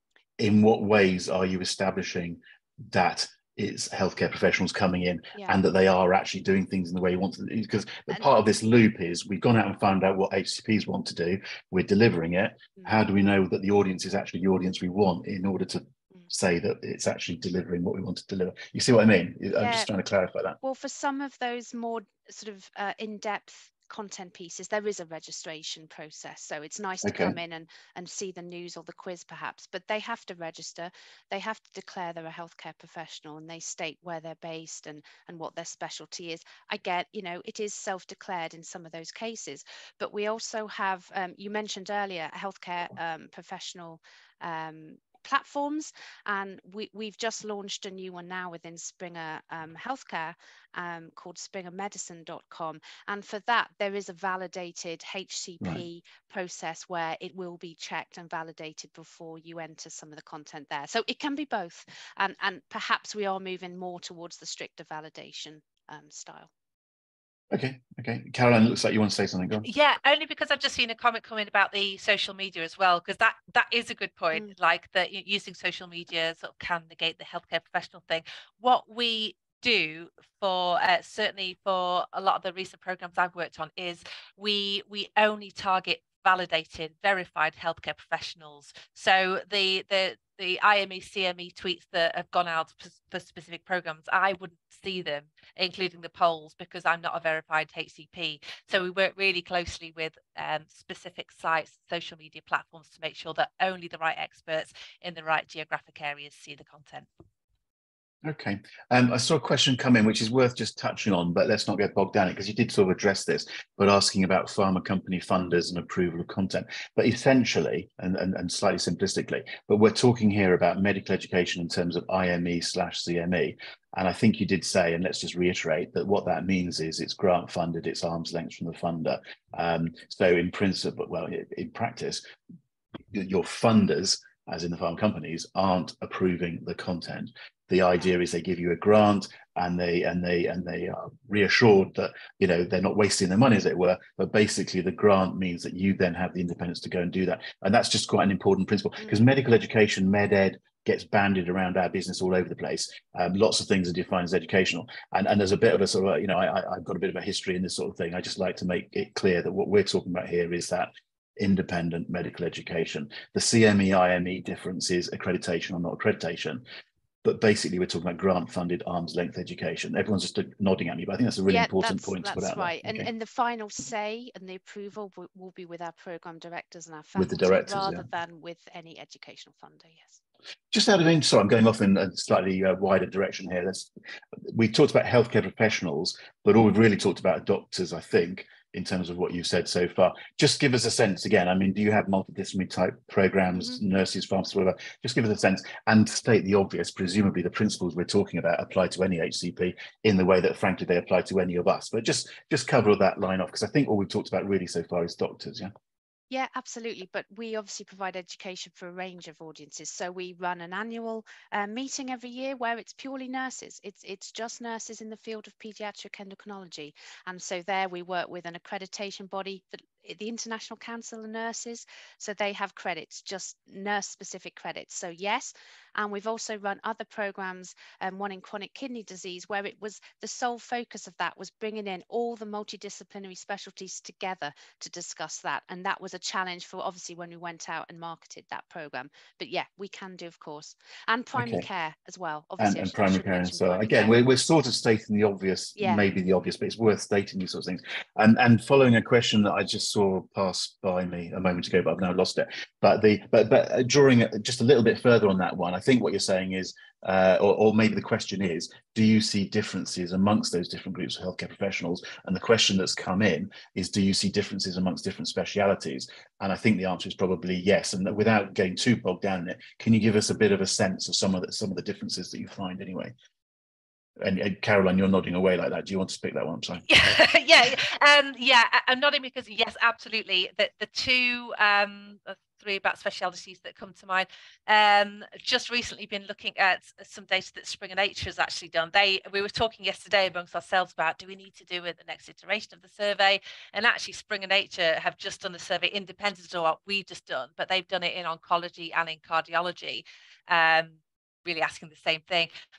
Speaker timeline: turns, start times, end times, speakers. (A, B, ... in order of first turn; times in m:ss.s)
0:00.4-0:20.6 A
0:19.6-0:19.9 B
0:20.6-1:06.5 B
0:27.0-0:27.4 A
1:07.5-1:09.7 A
1:09.6-1:47.1 C
1:48.2-2:12.2 A
2:13.1-2:46.6 A
2:47.2-2:53.1 A
2:51.5-3:00.2 B
2:57.2-2:58.1 A
3:00.7-3:03.9 A
3:04.5-3:25.7 A
3:26.3-4:04.2 B
4:01.4-4:01.6 A
4:02.6-4:33.1 A
4:05.8-4:06.0 B
4:34.2-4:36.8 A
4:36.9-5:02.5 C